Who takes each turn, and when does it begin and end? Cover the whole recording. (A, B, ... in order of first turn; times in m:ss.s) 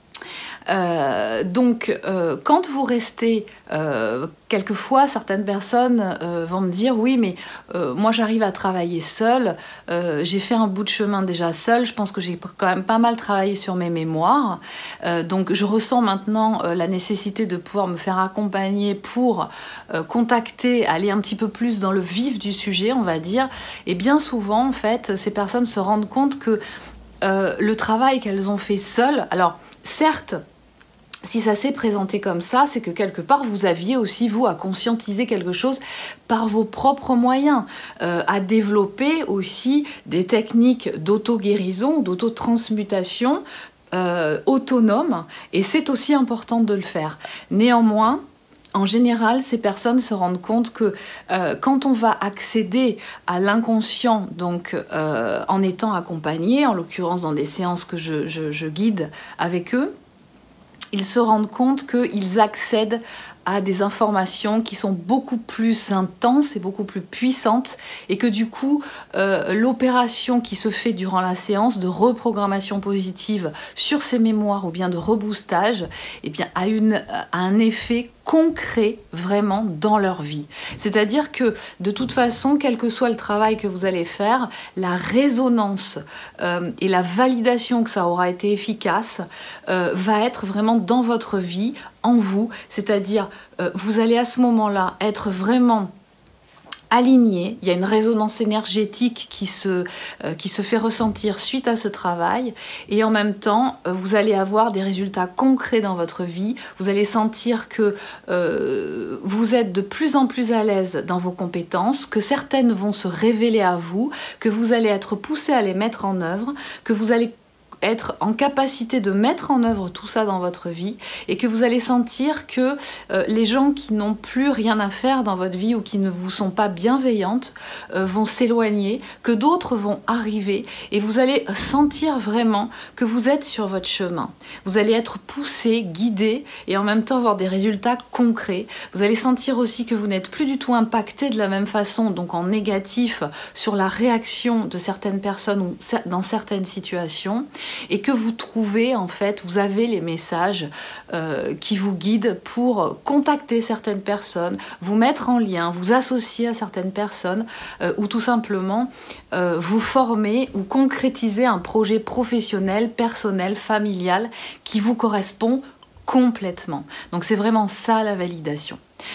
0:00.7-0:26.6 A
0:27.2-0:30.4 A
0:31.2-0:48.2 A
0:48.7-0:59.9 A
1:00.9-1:35.9 A
1:36.9-1:57.3 A
1:57.8-2:48.8 A